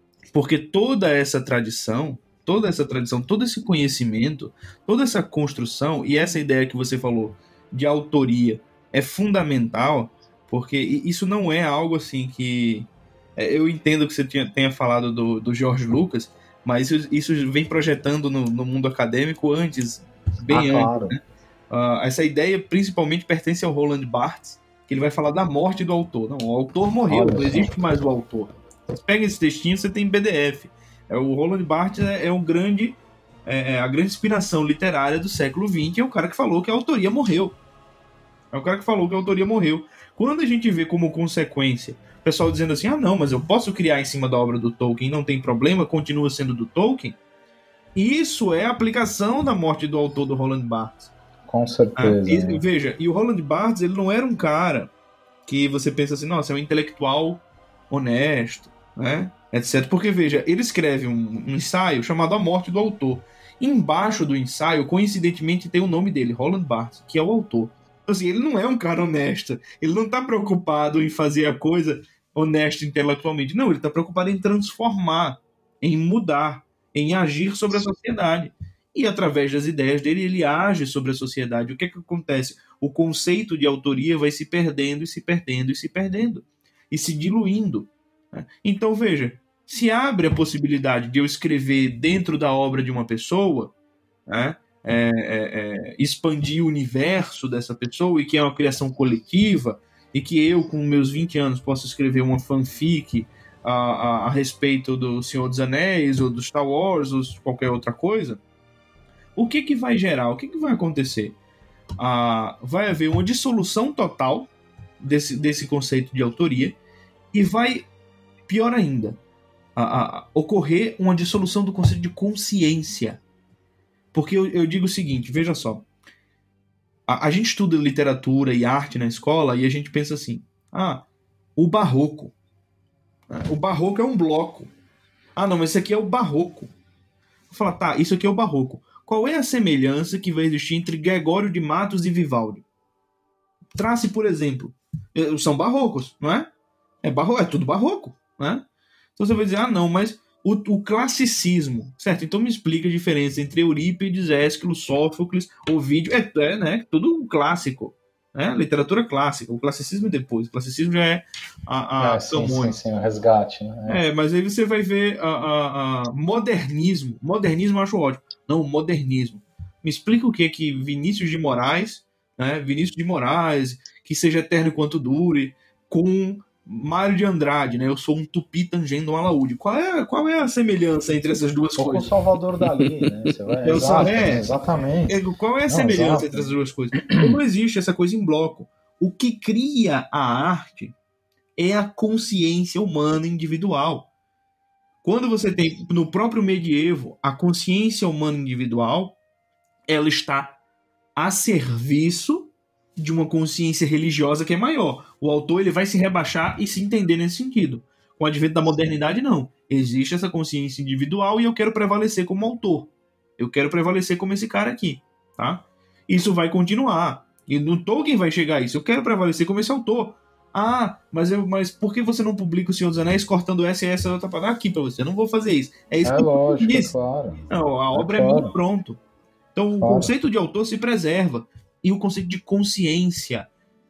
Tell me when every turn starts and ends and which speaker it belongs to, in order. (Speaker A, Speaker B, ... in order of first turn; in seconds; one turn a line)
Speaker A: 0.3-37.6
Speaker B: 20.5-21.2
Speaker B: 27.1-27.8
Speaker A: 38.5-47.2
Speaker A: 48.0-51.1
Speaker B: 51.5-52.6
Speaker A: 52.0-54.9
Speaker A: 55.5-93.7
Speaker A: 94.3-108.4
Speaker A: 109.4-111.4
Speaker A: 112.0-116.8
Speaker A: 117.3-117.9
Speaker A: 118.5-119.2
Speaker A: 119.8-123.2
Speaker A: 124.1-125.8
Speaker A: 127.1-131.0
Speaker A: 131.6-132.3
Speaker A: 133.3-134.7
Speaker A: 135.3-136.7
Speaker A: 137.5-142.7
Speaker A: 143.8-146.5
Speaker A: 147.0-148.6
Speaker A: 149.2-162.8
Speaker B: 162.0-164.0
Speaker A: 163.9-182.1
Speaker B: 181.8-185.2
Speaker A: 183.6-184.5
Speaker A: 185.1-190.9
Speaker B: 185.7-186.5
Speaker A: 191.6-194.1
Speaker A: 195.0-199.2
Speaker A: 199.9-200.6
Speaker A: 201.2-226.9
Speaker B: 226.0-228.5
Speaker A: 227.5-229.0
Speaker A: 229.6-233.5
Speaker B: 229.8-230.1